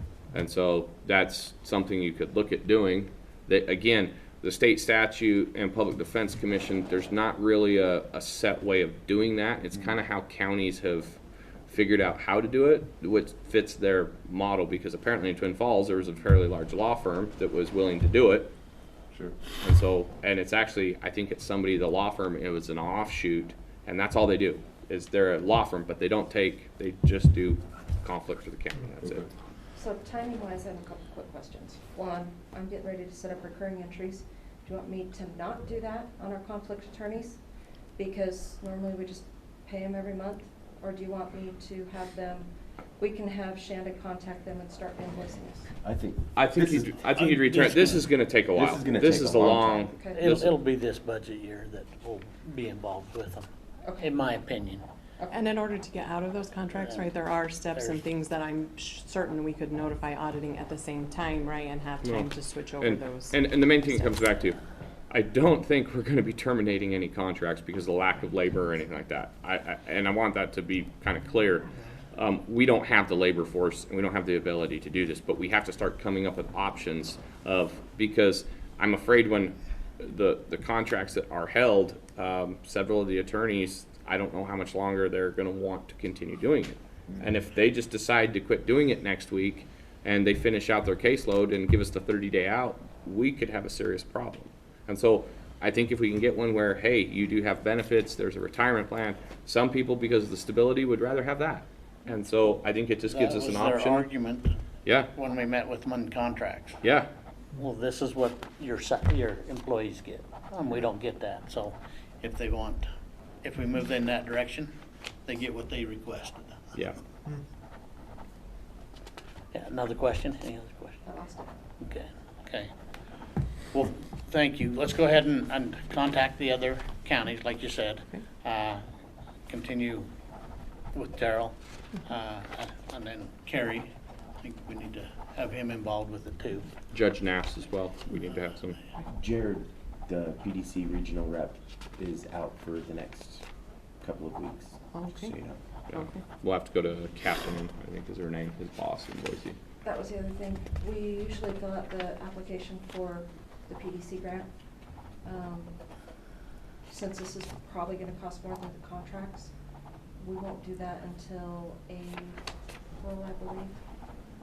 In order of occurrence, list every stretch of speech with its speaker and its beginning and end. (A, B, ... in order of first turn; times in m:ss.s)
0:00.3-0:18.5 A
0:19.6-0:29.2 A
0:29.8-0:37.4 B
0:38.0-0:45.7 B
0:45.8-0:49.9 C
0:46.3-0:50.5 A
0:50.0-0:50.3 B
0:50.1-0:53.5 D
0:53.8-0:54.1 B
0:54.0-0:54.8 D
0:55.2-0:55.4 B
0:55.3-1:04.2 E
0:56.7-0:57.1 D
0:57.6-0:58.0 D
1:02.0-1:04.6 A
1:05.1-1:44.0 A
1:43.1-1:44.5 D
1:45.1-1:46.8 D
1:46.8-1:47.1 A
1:47.6-1:52.8 D
1:53.4-1:54.7 D
1:55.2-1:56.8 D
1:59.5-2:01.0 D
2:01.0-2:01.5 B
2:01.8-2:02.7 D
2:03.7-2:08.8 D
2:09.5-2:10.1 D
2:10.9-2:16.7 D
2:16.9-2:18.8 A
2:18.1-2:18.6 D
2:19.1-2:23.4 C
2:24.0-2:25.6 C
2:24.9-2:25.4 E
2:25.9-2:29.6 A
2:25.9-2:26.2 E
2:29.8-2:34.5 B
2:35.2-2:35.8 B
2:36.9-2:39.5 B
2:40.2-2:42.4 B
2:43.0-2:43.8 B